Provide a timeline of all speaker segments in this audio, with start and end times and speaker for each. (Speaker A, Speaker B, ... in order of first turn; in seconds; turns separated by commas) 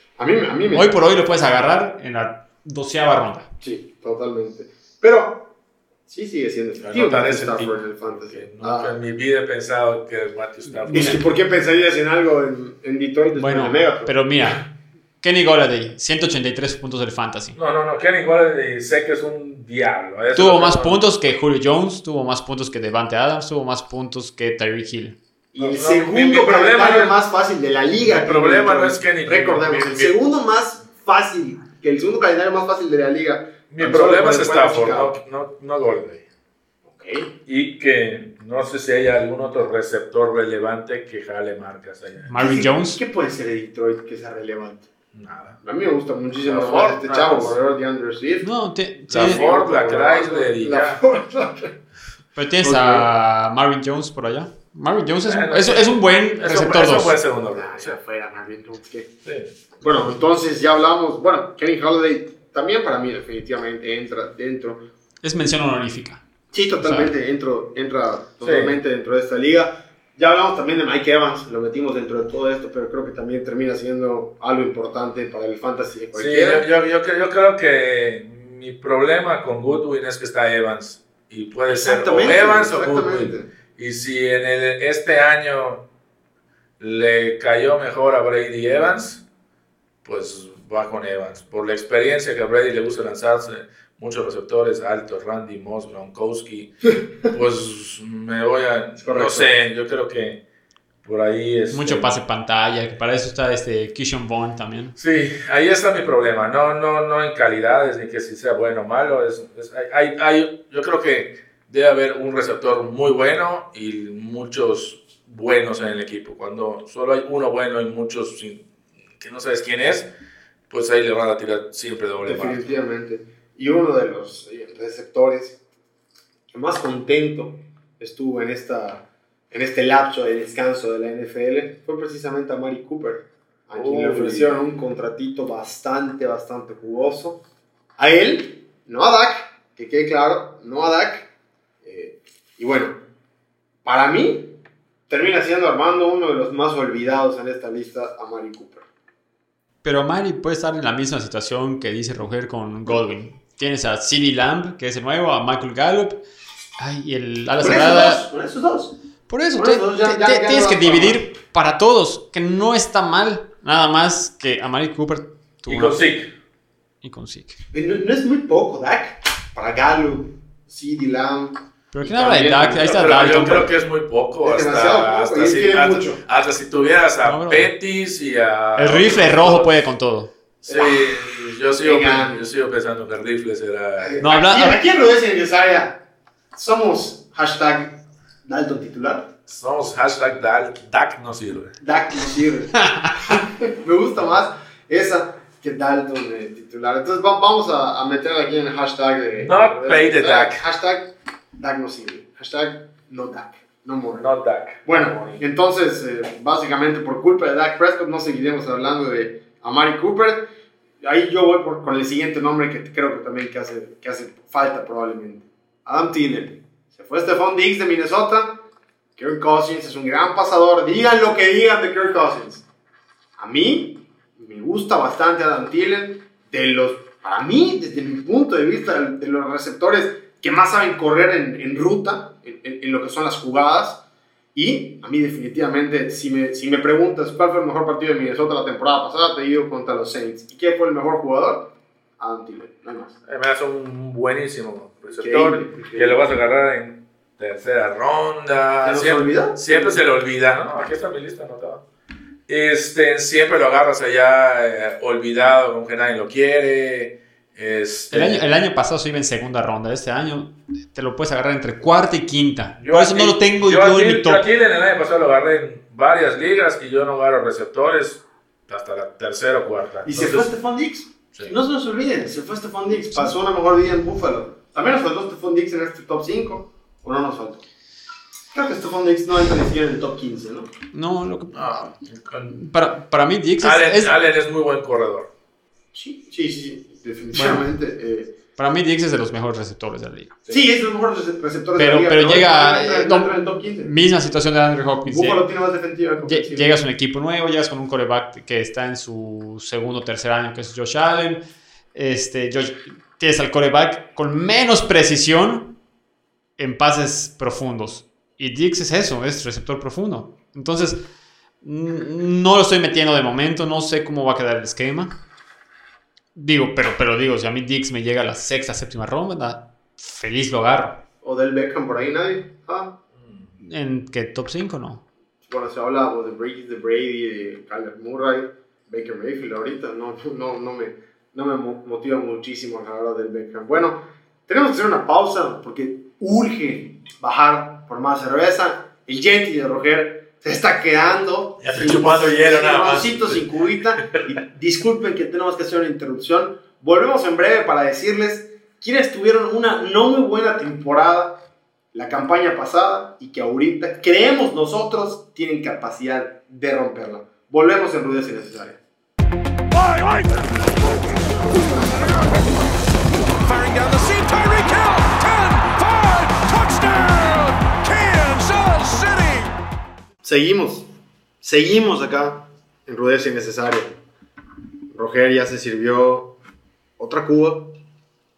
Speaker A: 0.2-0.9, Speaker B: 0.7-3.5, Speaker A: 3.6-5.5, Speaker A: 6.1-8.9, Speaker C: 6.8-11.2, Speaker B: 10.7-11.2, Speaker A: 10.9-14.6, Speaker B: 13.4-14.6, Speaker B: 15.2-17.6, Speaker C: 17.5-21.0, Speaker B: 20.3-25.2, Speaker A: 25.5-35.1, Speaker C: 25.6-27.1, Speaker C: 28.0-30.1, Speaker C: 33.7-36.2, Speaker A: 36.8-37.3, Speaker C: 37.5-42.5, Speaker B: 42.3-43.0, Speaker A: 42.4-44.9, Speaker C: 45.1-45.6, Speaker A: 45.6-48.5, Speaker C: 46.4-47.6, Speaker B: 48.4-49.5, Speaker C: 49.1-51.0, Speaker A: 49.1-51.8, Speaker B: 52.4-57.2, Speaker A: 52.6-53.1, Speaker C: 55.2-58.0, Speaker A: 57.5-59.1, Speaker C: 59.2-59.5, Speaker A: 59.8-64.9, Speaker B: 65.2-66.2, Speaker A: 66.5-76.6, Speaker B: 66.8-67.1, Speaker C: 68.4-68.8, Speaker C: 76.1-85.9, Speaker A: 81.7-83.5, Speaker C: 86.8-89.2, Speaker C: 90.0-100.4, Speaker A: 99.0-99.5, Speaker C: 101.0-102.2, Speaker B: 101.7-104.9, Speaker C: 105.0-118.7, Speaker C: 119.2-120.1, Speaker C: 120.7-122.7, Speaker A: 122.2-125.6, Speaker A: 126.5-137.4, Speaker C: 133.7-134.6, Speaker A: 138.0-141.3, Speaker A: 141.8-143.0, Speaker A: 143.8-148.9, Speaker B: 149.8-156.2, Speaker B: 156.8-158.2, Speaker A: 157.6-158.9, Speaker B: 159.3-166.0, Speaker A: 159.5-161.3, Speaker C: 165.7-166.3, Speaker B: 167.0-167.6, Speaker A: 167.7-173.7, Speaker B: 171.9-173.7, Speaker C: 172.7-179.8, Speaker A: 174.4-176.2, Speaker B: 177.2-177.7, Speaker B: 178.8-180.3, Speaker C: 180.6-184.2, Speaker A: 180.7-182.5, Speaker A: 184.0-186.0, Speaker B: 184.2-184.8, Speaker A: 186.5-189.3, Speaker C: 189.5-191.8, Speaker A: 191.8-204.2, Speaker B: 192.8-193.1, Speaker C: 199.4-200.6, Speaker C: 204.1-205.4, Speaker A: 204.8-210.5, Speaker A: 211.0-222.7, Speaker A: 223.4-234.0, Speaker A: 234.5-243.2, Speaker C: 243.2-251.8, Speaker A: 245.1-246.3, Speaker A: 248.8-250.0, Speaker C: 252.5-258.4, Speaker B: 258.1-264.4, Speaker C: 262.8-270.5, Speaker A: 270.0-277.6, Speaker A: 278.5-280.7, Speaker B: 280.9-281.9, Speaker C: 281.5-282.6, Speaker B: 282.5-284.1, Speaker C: 283.6-285.3, Speaker A: 285.9-288.3, Speaker B: 287.3-287.6, Speaker B: 288.6-290.4, Speaker A: 290.5-293.9, Speaker B: 291.8-295.4, Speaker A: 295.0-296.8, Speaker B: 296.2-305.8, Speaker B: 306.6-311.1, Speaker B: 311.6-315.1, Speaker B: 316.3-321.0, Speaker A: 321.2-323.0, Speaker B: 323.6-325.0, Speaker A: 325.5-358.8, Speaker C: 341.6-343.4, Speaker D: 359.7-361.0, Speaker D: 361.6-362.4, Speaker D: 363.4-369.5, Speaker A: 370.2-370.9, Speaker A: 371.4-374.0, Speaker A: 374.9-376.4, Speaker A: 377.0-377.8